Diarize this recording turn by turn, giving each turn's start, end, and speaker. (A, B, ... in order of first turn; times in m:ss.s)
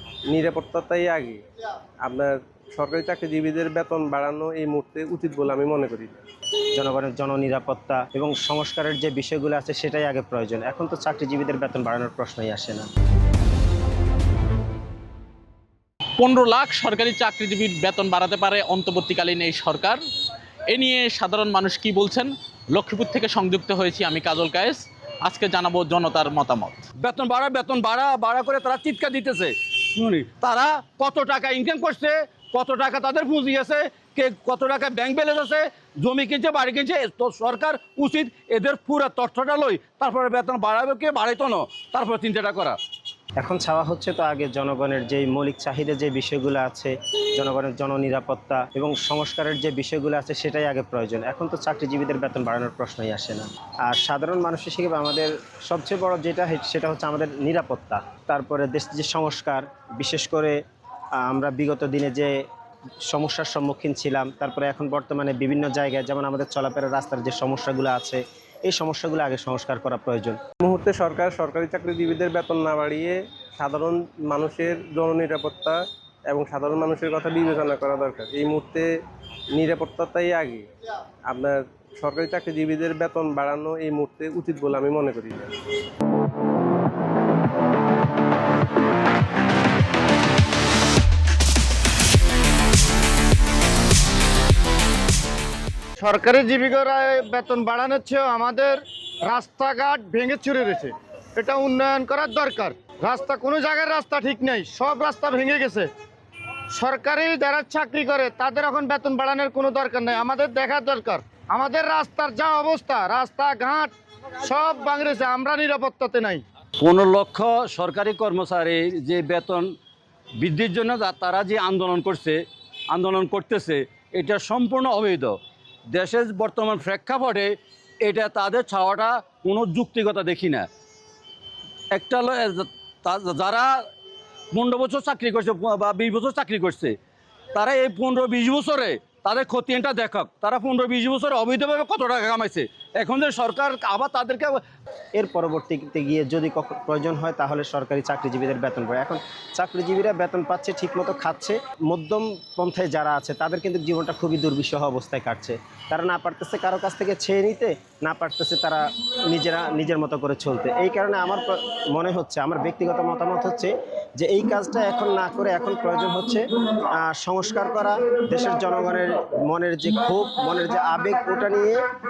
0:00.3-0:01.4 A
0:02.0-0:06.2 A
0:06.8-0:12.9 B
0:16.2-0:20.0 C
0:20.7-0:26.8 C
0:27.0-0:42.8 D
0:43.4-1:00.6 B
1:01.2-1:02.4 B
1:03.1-1:10.4 B
1:10.6-1:18.9 A
1:19.6-1:20.7 A
1:21.3-1:25.5 A
1:36.0-1:45.9 E
1:46.8-1:56.4 E
1:56.8-1:59.7 D
2:00.4-2:02.4 D
2:02.9-2:05.4 D
2:05.9-2:10.7 D
2:11.9-2:13.7 D
2:14.5-2:17.0 D
2:17.5-2:24.6 D
2:25.2-2:51.8 B